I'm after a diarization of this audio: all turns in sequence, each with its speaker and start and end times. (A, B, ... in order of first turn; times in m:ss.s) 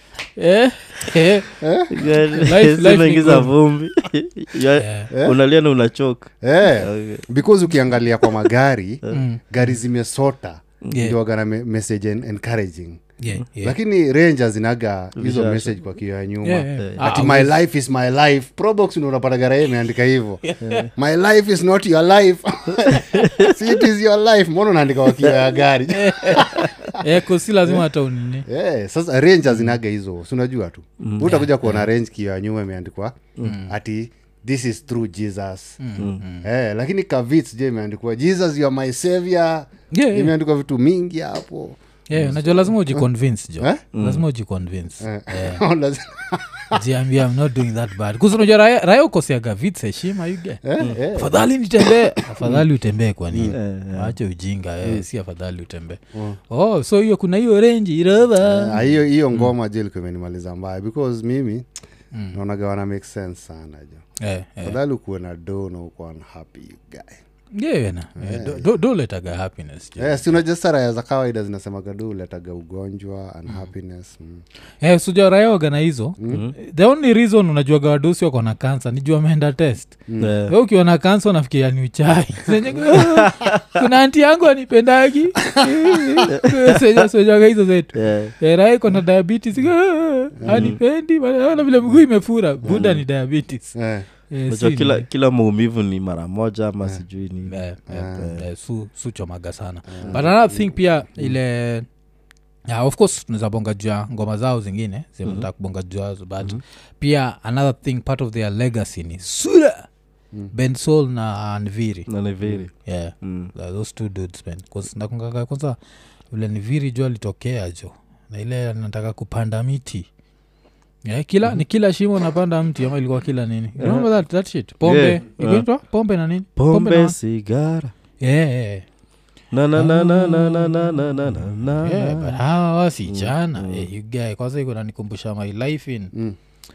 0:00.4-0:01.6 A
0:01.6-0:02.4 B
0:01.9-0:07.3 C
0:02.4-0:03.5 A
0:04.8-0:05.1 A
0:05.1-0:05.4 B
0:06.4-0:13.1 B
0:09.1-0:09.6 A
0:13.2-0:13.8 A
0:13.6-0:27.1 B
0:15.2-0:15.8 C
0:16.4-0:17.6 A
0:16.8-0:17.1 C
0:20.5-0:20.9 A
0:20.6-0:20.9 C
0:23.0-0:23.7 C
0:25.9-0:28.5 A
0:28.5-0:35.8 B
0:31.0-0:31.3 C
0:31.2-0:31.8 A
0:33.4-0:33.7 A
0:35.8-0:36.5 A
0:36.0-0:36.2 C
0:36.4-0:43.0 B
0:39.9-0:40.3 A
0:42.1-0:45.6 A
0:43.9-0:44.2 C
0:45.0-0:46.8 B
0:46.7-0:59.5 A
0:50.6-0:52.6 B
0:53.3-0:53.6 B
0:53.5-0:54.2 C
0:56.1-0:56.4 B
0:58.4-1:01.7 B
1:02.3-1:04.0 B
1:04.2-1:04.8 A
1:04.6-1:07.2 B
1:07.5-1:10.4 A
1:08.2-1:08.7 B
1:10.0-1:14.4 B
1:14.8-1:33.8 A
1:20.2-1:20.6 C
1:22.9-1:23.6 C
1:25.4-1:26.2 B
1:26.3-1:27.1 C
1:27.9-1:28.3 C
1:30.4-1:30.8 B
1:30.5-1:30.8 C
1:32.7-1:33.0 C
1:33.8-1:34.1 B
1:34.3-1:35.0 A
1:34.5-1:37.6 C
1:37.5-1:41.9 A
1:37.9-1:38.4 B
1:39.9-1:40.7 B
1:42.7-1:49.9 A
1:50.5-1:52.1 A
1:52.1-1:53.5 C
1:52.8-1:55.8 A
1:56.3-2:00.1 A
2:01.0-2:07.2 A
2:03.8-2:04.1 C
2:04.8-2:05.7 C
2:06.6-2:07.9 C
2:08.2-2:08.8 A
2:09.5-2:12.4 C
2:09.8-2:11.1 A
2:11.8-2:16.1 A
2:13.1-2:13.9 C